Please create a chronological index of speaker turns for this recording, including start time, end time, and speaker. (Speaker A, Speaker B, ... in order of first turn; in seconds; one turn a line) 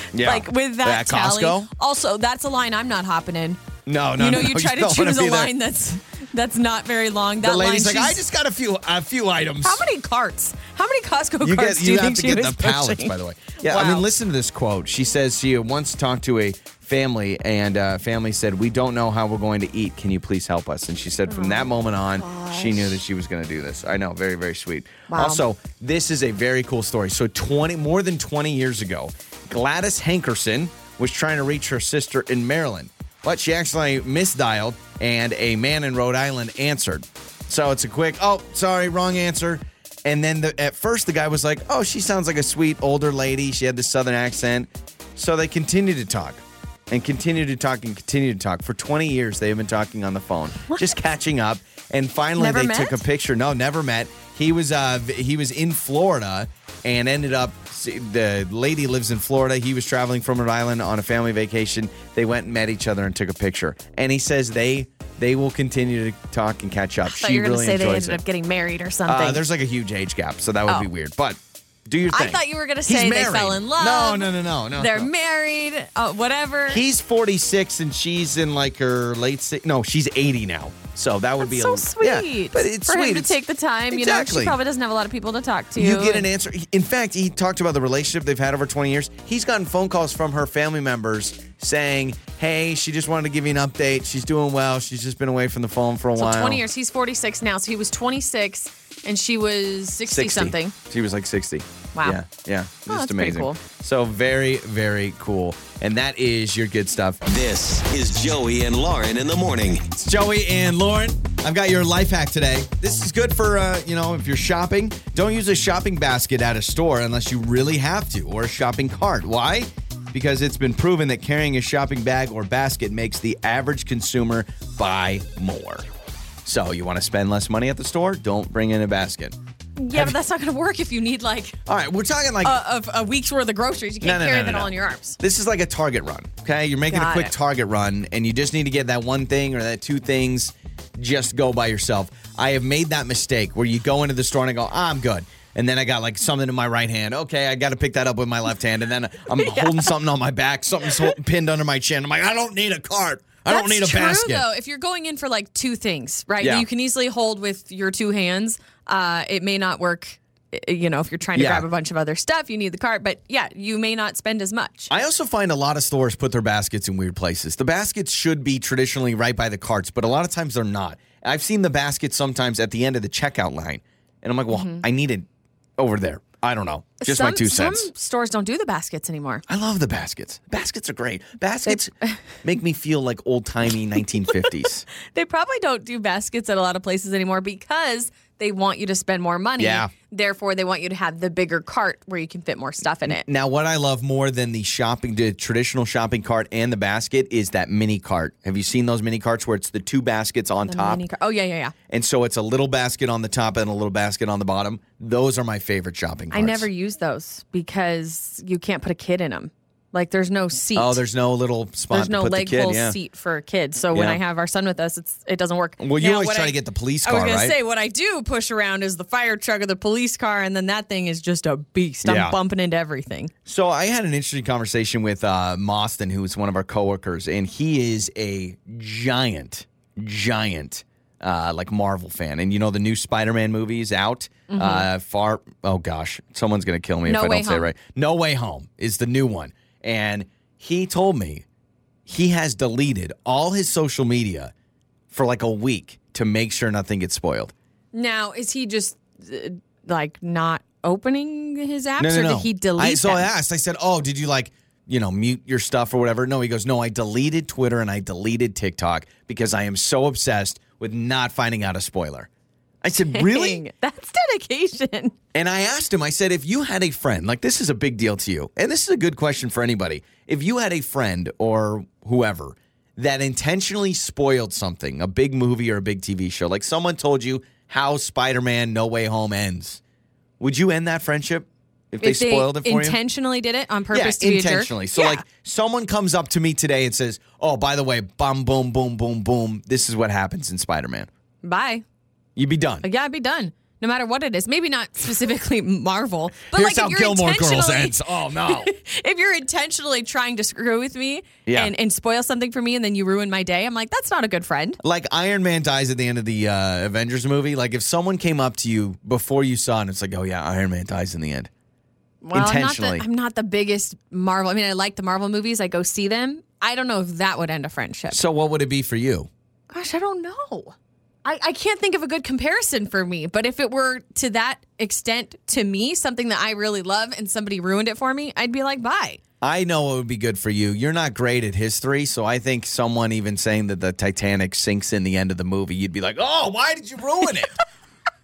Speaker A: 0.1-1.7
Speaker B: 0.1-3.6
Speaker A: 3.9-5.5
Speaker B: 4.2-8.2
Speaker A: 7.4-9.8
Speaker B: 9.6-14.1
Speaker A: 11.4-68.2
Speaker B: 21.3-23.0
Speaker B: 25.1-25.4
Speaker B: 52.4-53.0
Speaker B: 67.0-69.4
Speaker A: 69.1-75.1
Speaker B: 72.1-76.8
Speaker A: 76.7-83.4
Speaker B: 81.4-86.3
Speaker A: 83.9-84.6
Speaker A: 85.8-96.6
Speaker B: 96.2-100.8
Speaker A: 100.1-107.2
Speaker B: 102.9-103.6
Speaker C: 107.3-109.9
Speaker A: 109.9-125.9
Speaker A: 126.5-129.4
Speaker B: 129.8-131.6
Speaker A: 131.7-132.6
Speaker B: 132.4-135.2
Speaker A: 134.0-154.5
Speaker B: 136.9-137.3
Speaker B: 149.4-149.9
Speaker B: 153.5-164.9
Speaker A: 156.4-156.7
Speaker A: 161.3-161.7
Speaker A: 164.9-177.9
Speaker B: 174.5-174.8
Speaker B: 177.0-179.4
Speaker A: 179.5-184.8
Speaker B: 181.7-182.2
Speaker B: 185.0-193.2
Speaker A: 189.6-189.9
Speaker A: 193.0-201.0
Speaker B: 200.7-201.7
Speaker A: 201.9-206.7
Speaker B: 206.3-211.0
Speaker A: 210.8-213.0
Speaker B: 211.9-223.3
Speaker A: 213.9-214.2
Speaker A: 215.8-217.6
Speaker A: 222.0-222.4
Speaker A: 223.5-241.4
Speaker B: 234.5-234.9
Speaker B: 237.1-237.7
Speaker A: 242.1-244.5
Speaker A: 245.1-247.5
Speaker B: 247.9-253.3
Speaker A: 252.0-262.3
Speaker A: 262.8-263.6
Speaker B: 263.1-265.1
Speaker A: 265.3-279.8
Speaker A: 280.4-283.0
Speaker B: 282.0-285.2
Speaker A: 283.9-291.1
Speaker B: 291.4-291.8
Speaker A: 292.4-292.9
Speaker B: 292.8-304.8
Speaker A: 296.5-298.7
Speaker A: 301.5-301.7
Speaker A: 304.8-311.5
Speaker B: 312.2-318.2
Speaker A: 312.3-313.1
Speaker A: 318.1-319.3
Speaker B: 319.7-320.7
Speaker B: 321.2-329.2
Speaker A: 329.4-337.6